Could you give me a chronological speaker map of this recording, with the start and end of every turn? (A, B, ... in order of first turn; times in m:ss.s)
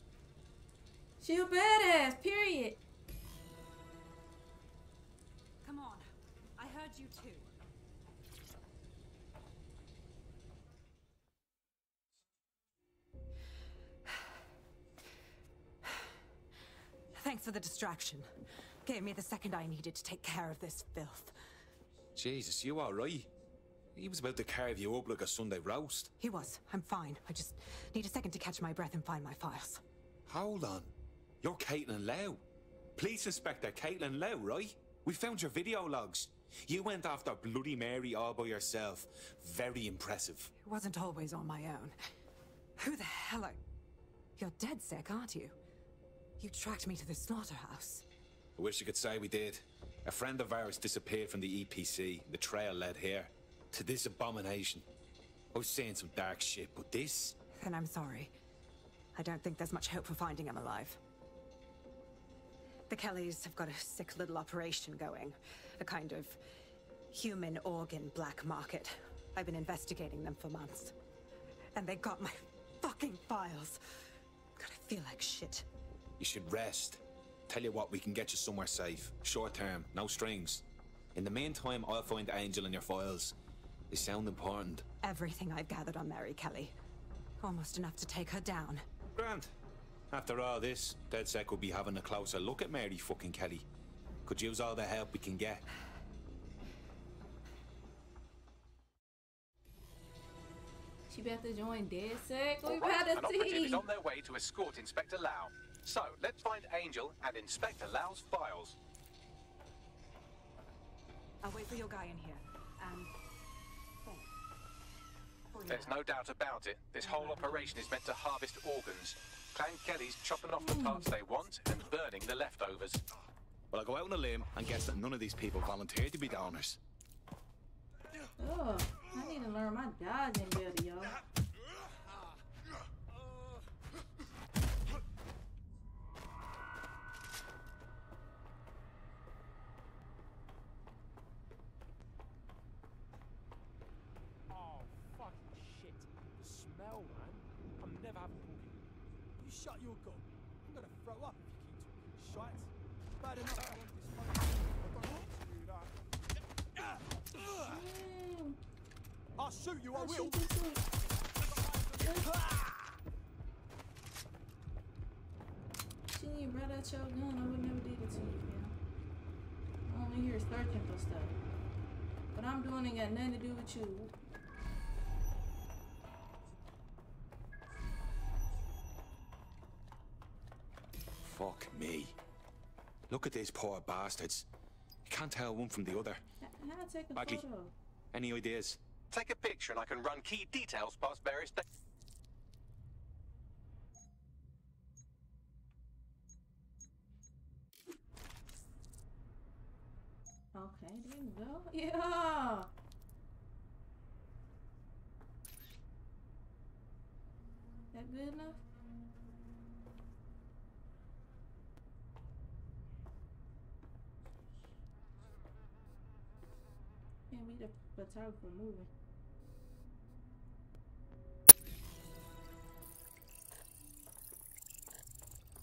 0:01.2-0:02.8 A
0:05.6-0:07.5 B
0:17.1-0:18.3 B
0:18.8-0:21.4 B
0:22.1-0:23.3 C
0:23.9-0:26.1 C
0:26.2-0:29.8 B
0:30.3-0:32.4 C
0:33.0-0:40.5 C
0:40.6-0:42.0 B
0:42.8-0:43.6 B
0:44.4-0:45.5 B
0:46.4-0:48.0 B
0:48.6-0:54.9 C
0:55.5-0:57.4 C
0:57.6-0:58.3 B
0:59.2-1:01.0 B
1:02.9-1:06.4 B
1:07.1-1:10.9 B
1:11.7-1:13.8 B
1:14.6-1:15.7 B
1:16.2-1:23.4 C
1:23.9-1:24.8 C
1:25.0-1:26.7 B
1:27.4-1:28.8 B
1:29.2-1:29.5 C
1:30.1-1:33.7 C
1:34.2-1:35.6 C
1:41.1-1:43.8 A
1:42.6-1:48.8 D
1:51.4-1:53.1 B
1:54.0-1:54.3 B
1:55.5-1:55.9 B
1:55.6-2:03.0 D
1:57.0-1:57.7 B
2:00.6-2:01.1 A
2:03.7-2:06.8 C
2:08.4-2:11.2 A
2:25.0-2:25.9 E
2:26.7-2:28.7 E
2:29.4-2:32.7 F
2:33.2-2:35.9 F
2:37.5-2:38.6 A
2:39.4-2:40.4 F
2:39.9-2:40.8 A
2:41.5-2:42.5 F
2:42.0-2:42.3 A
2:46.1-2:48.7 A
2:49.9-2:51.3 A
2:52.3-2:54.1 A
3:01.2-3:02.1 C
3:03.1-3:04.5 C
3:05.1-3:06.2 C
3:06.4-3:07.7 A
3:07.2-3:07.4 C
3:08.1-3:08.8 C
3:09.1-3:11.6 D
3:20.5-3:22.7 A
3:27.9-3:28.6 A
3:37.3-3:38.9 A